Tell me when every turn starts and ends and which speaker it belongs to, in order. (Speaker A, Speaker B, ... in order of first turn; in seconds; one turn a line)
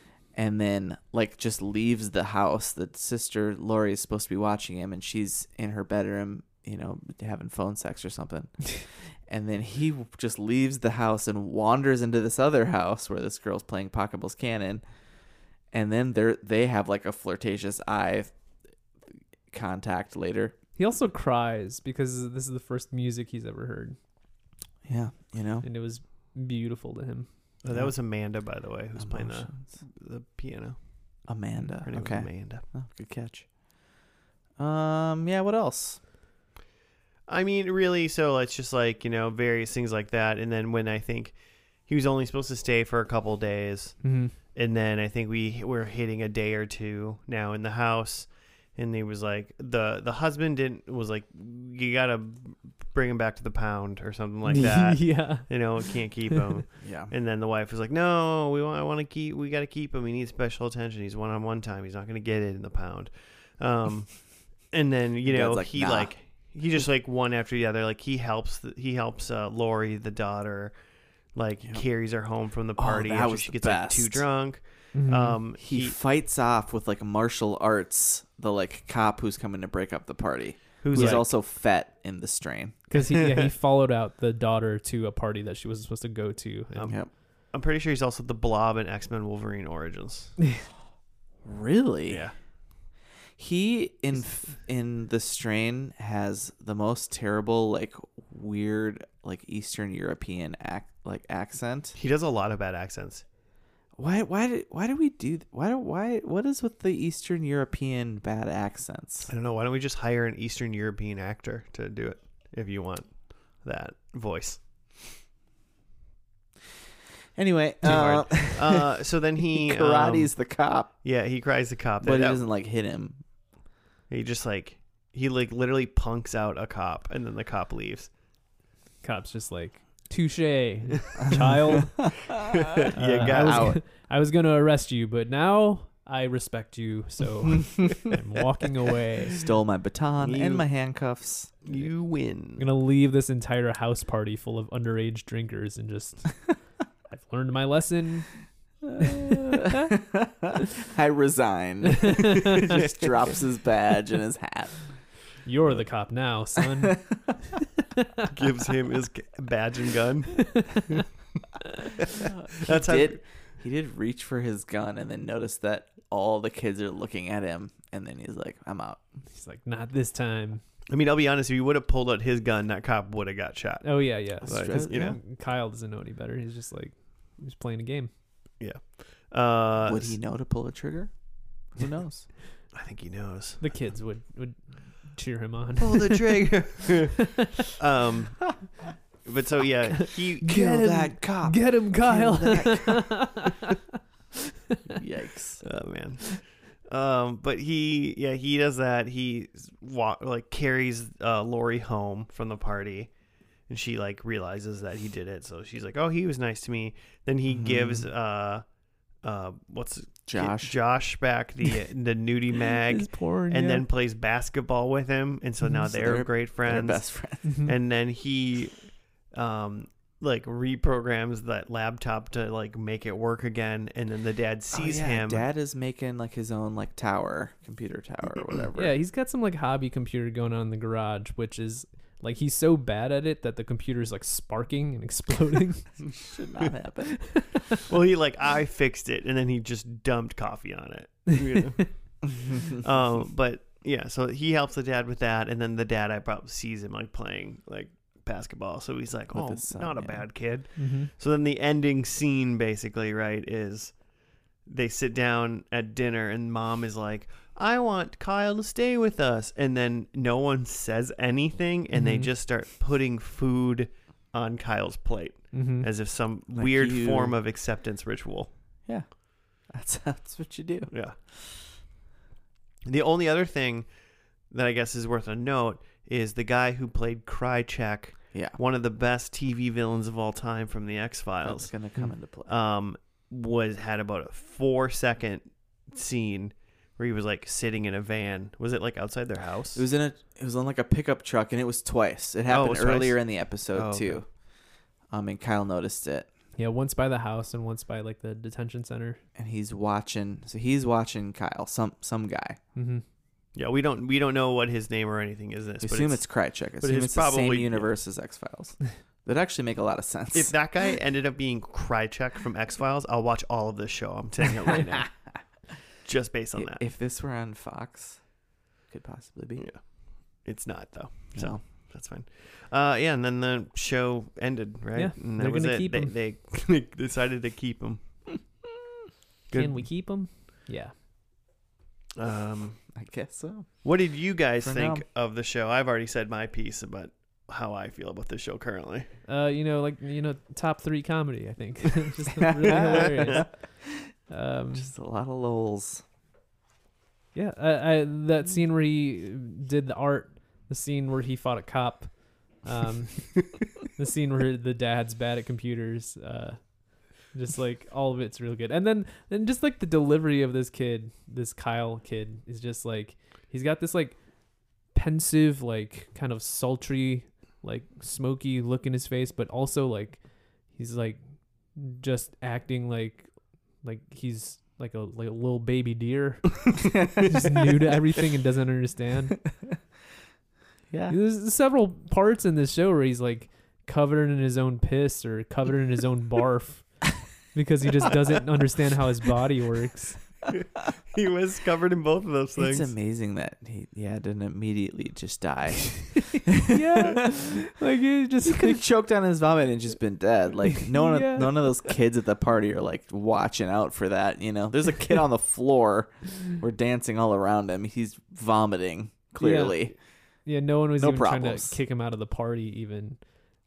Speaker A: 0.3-14.8
Speaker A: 15.7-18.3
Speaker A: 19.5-20.6
Speaker B: 20.8-24.0
Speaker A: 24.9-25.6
Speaker B: 25.6-27.3
Speaker C: 27.6-30.8
Speaker A: 27.7-27.9
Speaker A: 29.0-29.7
Speaker A: 31.3-33.5
Speaker C: 31.8-32.6
Speaker A: 34.6-36.0
Speaker C: 37.3-70.8
Speaker B: 44.0-44.3
Speaker B: 54.5-56.4
Speaker A: 56.8-57.1
Speaker A: 65.2-66.1
Speaker C: 71.3-76.0
Speaker A: 72.8-74.3
Speaker B: 74.9-75.4
Speaker A: 75.6-83.1
Speaker C: 80.8-81.3
Speaker B: 80.9-81.2
Speaker B: 82.9-86.9
Speaker C: 86.8-90.3
Speaker A: 91.5-92.2
Speaker C: 92.1-92.3
Speaker A: 93.4-102.0
Speaker C: 102.0-103.2
Speaker A: 104.0-109.3
Speaker C: 109.3-114.6
Speaker A: 117.3-118.9
Speaker C: 117.8-120.3
Speaker A: 119.4-120.9
Speaker C: 121.0-122.4
Speaker A: 122.0-123.2
Speaker C: 124.1-128.1
Speaker B: 129.0-132.1
Speaker A: 131.3-132.3
Speaker C: 132.4-133.8
Speaker A: 132.8-133.8
Speaker B: 132.9-139.4
Speaker A: 139.3-141.5
Speaker C: 140.2-140.7
Speaker C: 141.6-142.6
Speaker B: 142.6-146.5
Speaker B: 147.1-148.3
Speaker A: 148.8-154.8
Speaker B: 149.0-149.8
Speaker B: 152.0-152.6
Speaker C: 152.6-153.1
Speaker B: 155.4-157.4
Speaker A: 156.6-157.2
Speaker C: 158.3-161.1
Speaker B: 160.4-161.0
Speaker C: 162.0-163.2
Speaker A: 162.2-169.0
Speaker B: 169.3-170.6
Speaker C: 170.9-175.2
Speaker B: 173.8-178.1
Speaker A: 174.4-175.2
Speaker C: 178.6-180.2
Speaker A: 179.8-181.1
Speaker A: 181.7-182.3
Speaker C: 182.7-183.6
Speaker B: 183.6-186.4
Speaker C: 185.8-188.7
Speaker C: 189.2-190.8
Speaker B: 190.0-193.8
Speaker A: 190.4-193.2
Speaker A: 194.9-195.7
Speaker C: 195.6-203.1
Speaker C: 203.7-208.6
Speaker A: 207.5-208.1
Speaker C: 209.2-225.4
Speaker A: 210.3-210.8
Speaker B: 212.9-213.8
Speaker A: 215.7-217.4
Speaker B: 217.4-217.7
Speaker A: 224.7-228.9
Speaker B: 228.8-235.9
Speaker A: 236.1-237.6
Speaker B: 237.2-237.8
Speaker C: 237.9-254.0
Speaker A: 242.4-242.8
Speaker A: 249.3-250.3
Speaker B: 250.8-251.1
Speaker C: 254.7-268.5
Speaker B: 261.9-262.3
Speaker B: 265.5-265.9
Speaker A: 266.5-267.4
Speaker A: 269.7-270.9
Speaker C: 270.9-271.1
Speaker C: 272.9-273.9
Speaker C: 274.5-281.8
Speaker A: 281.4-282.5
Speaker C: 282.5-289.8
Speaker A: 289.8-294.3
Speaker C: 292.5-294.2
Speaker A: 295.1-296.3
Speaker B: 296.6-299.2
Speaker A: 299.4-302.6
Speaker B: 302.8-303.0
Speaker C: 303.6-307.9
Speaker A: 305.8-310.6
Speaker C: 310.3-315.3
Speaker C: 316.0-316.8
Speaker A: 316.6-318.2
Speaker A: 318.9-319.6
Speaker C: 319.6-328.4
Speaker A: 321.4-321.6
Speaker B: 325.0-326.1
Speaker C: 329.5-329.9
Speaker B: 329.5-330.9
Speaker C: 332.2-332.9
Speaker A: 332.9-333.8
Speaker C: 333.8-339.1
Speaker A: 334.6-335.1
Speaker B: 339.3-343.5
Speaker A: 342.4-344.1
Speaker B: 344.3-344.9
Speaker A: 344.7-346.0
Speaker B: 347.4-364.2
Speaker B: 364.9-379.4
Speaker A: 380.9-381.1
Speaker B: 381.1-390.2
Speaker C: 391.1-392.9
Speaker A: 392.6-397.3
Speaker B: 396.1-398.8
Speaker A: 398.4-410.0
Speaker B: 400.8-401.8
Speaker B: 409.4-413.2
Speaker A: 411.0-411.8